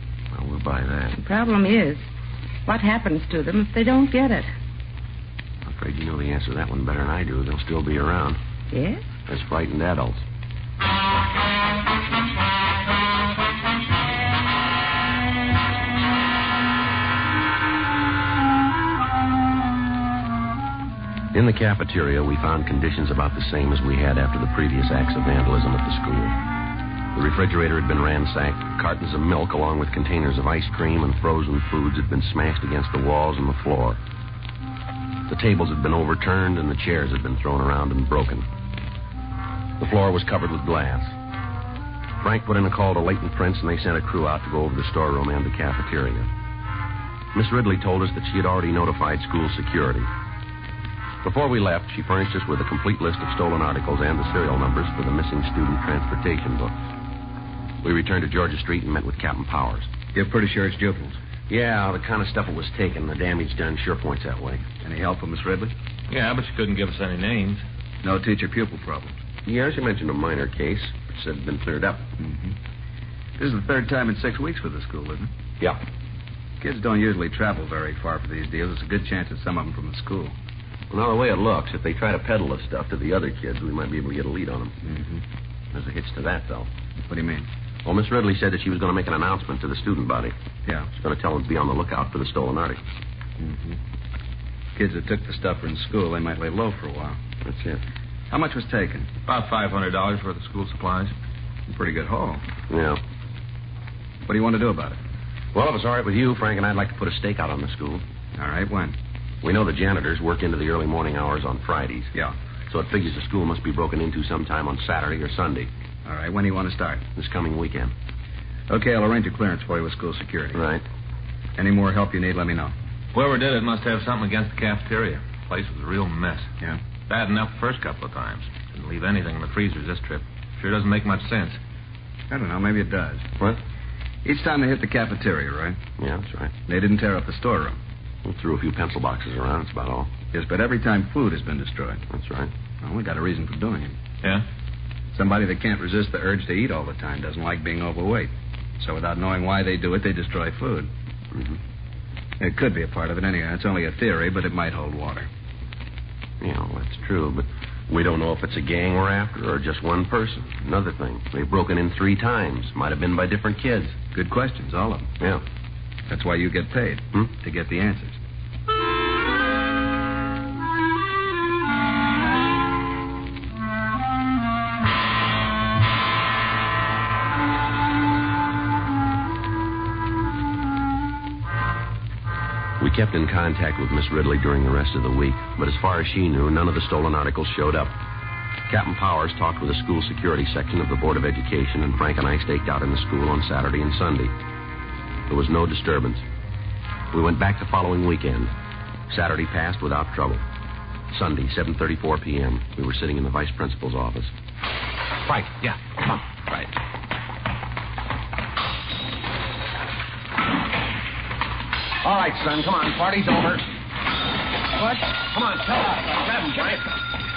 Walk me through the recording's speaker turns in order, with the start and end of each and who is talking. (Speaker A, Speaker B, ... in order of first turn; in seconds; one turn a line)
Speaker A: 0.3-1.2
Speaker B: 1.1-2.1
Speaker B: 2.7-4.5
Speaker A: 5.7-8.4
Speaker B: 8.7-9.1
Speaker A: 9.3-10.2
Speaker A: 21.3-26.4
Speaker A: 27.1-34.0
Speaker A: 35.3-38.5
Speaker A: 39.8-41.1
Speaker A: 42.2-46.3
Speaker A: 47.3-50.1
Speaker A: 51.2-56.7
Speaker A: 57.8-59.9
Speaker C: 60.1-61.2
Speaker A: 61.5-64.6
Speaker C: 64.8-65.7
Speaker D: 66.1-67.6
Speaker C: 68.0-69.2
Speaker A: 69.5-72.1
Speaker C: 72.2-72.5
Speaker C: 73.4-75.3
Speaker C: 76.6-80.3
Speaker A: 80.9-84.8
Speaker C: 84.8-85.2
Speaker A: 85.7-86.7
Speaker C: 87.1-87.5
Speaker A: 87.8-90.3
Speaker A: 91.0-92.8
Speaker C: 93.4-93.8
Speaker C: 94.8-97.2
Speaker A: 97.4-97.8
Speaker C: 98.3-99.1
Speaker D: 99.3-101.1
Speaker C: 101.7-102.4
Speaker A: 102.7-103.0
Speaker C: 104.3-105.0
Speaker A: 105.5-108.0
Speaker C: 108.4-109.0
Speaker A: 109.4-112.1
Speaker A: 112.7-115.7
Speaker C: 116.0-117.0
Speaker A: 117.2-117.9
Speaker C: 118.7-120.6
Speaker A: 120.5-120.8
Speaker C: 121.6-122.7
Speaker D: 123.1-126.5
Speaker D: 127.1-131.6
Speaker C: 132.3-133.3
Speaker C: 134.2-135.8
Speaker A: 136.0-136.5
Speaker C: 136.7-137.8
Speaker A: 138.2-140.1
Speaker C: 140.3-142.0
Speaker A: 142.1-142.5
Speaker C: 142.8-144.0
Speaker C: 145.1-150.9
Speaker C: 152.4-155.3
Speaker A: 156.4-164.0
Speaker C: 164.1-165.1
Speaker C: 166.1-168.2
Speaker A: 182.8-187.9
Speaker A: 188.7-194.3
Speaker A: 195.3-196.2
Speaker A: 197.1-198.5
Speaker A: 199.1-200.4
Speaker A: 201.1-204.3
Speaker A: 205.2-206.7
Speaker A: 212.0-213.7
Speaker A: 214.8-217.0